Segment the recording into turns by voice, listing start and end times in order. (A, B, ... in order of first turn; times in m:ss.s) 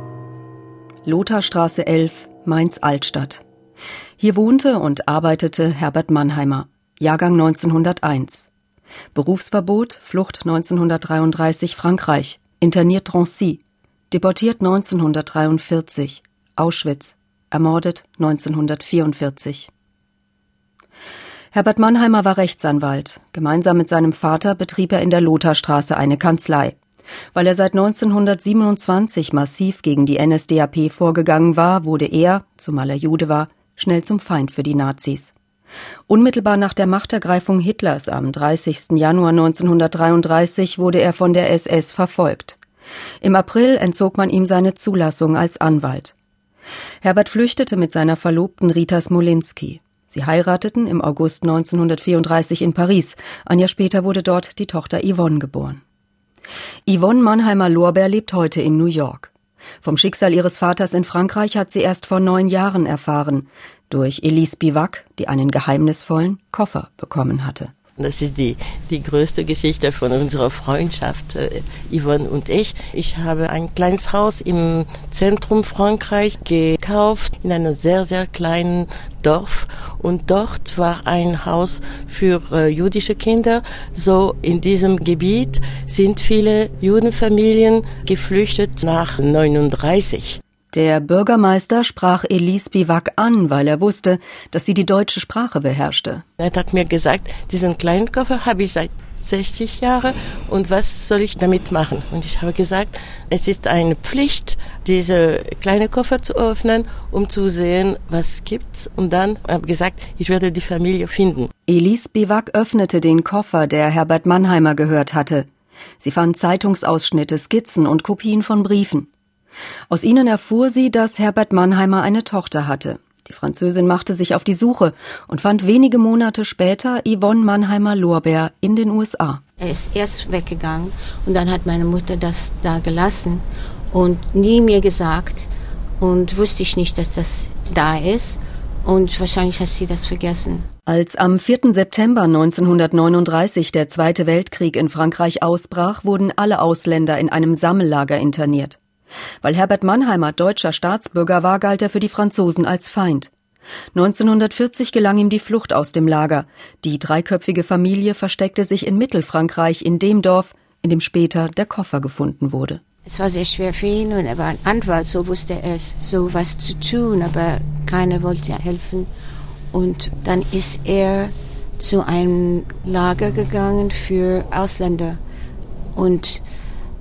0:01.0-0:03.4 A
0:04.2-0:08.5 A
0:09.1-0:19.7 A
0:21.5-0:26.8 A
0:27.3-0:35.3 A
0:36.1-0:42.6 A
0:43.2-0:46.1 A
0:47.0-0:55.8 A
0:56.8-0:59.3 A
0:59.8-1:07.7 A
1:08.0-1:30.4 B
1:30.7-1:36.2 A
1:36.4-1:51.5 B
1:51.7-1:55.5 A
1:56.0-1:59.1 A
1:59.9-2:09.4 A
2:09.6-2:20.6 C
2:20.9-2:28.8 A
2:29.4-2:33.3 A
2:33.9-2:42.8 A
2:43.0-2:49.1 C
2:49.7-2:55.2 C
2:55.9-2:56.4 C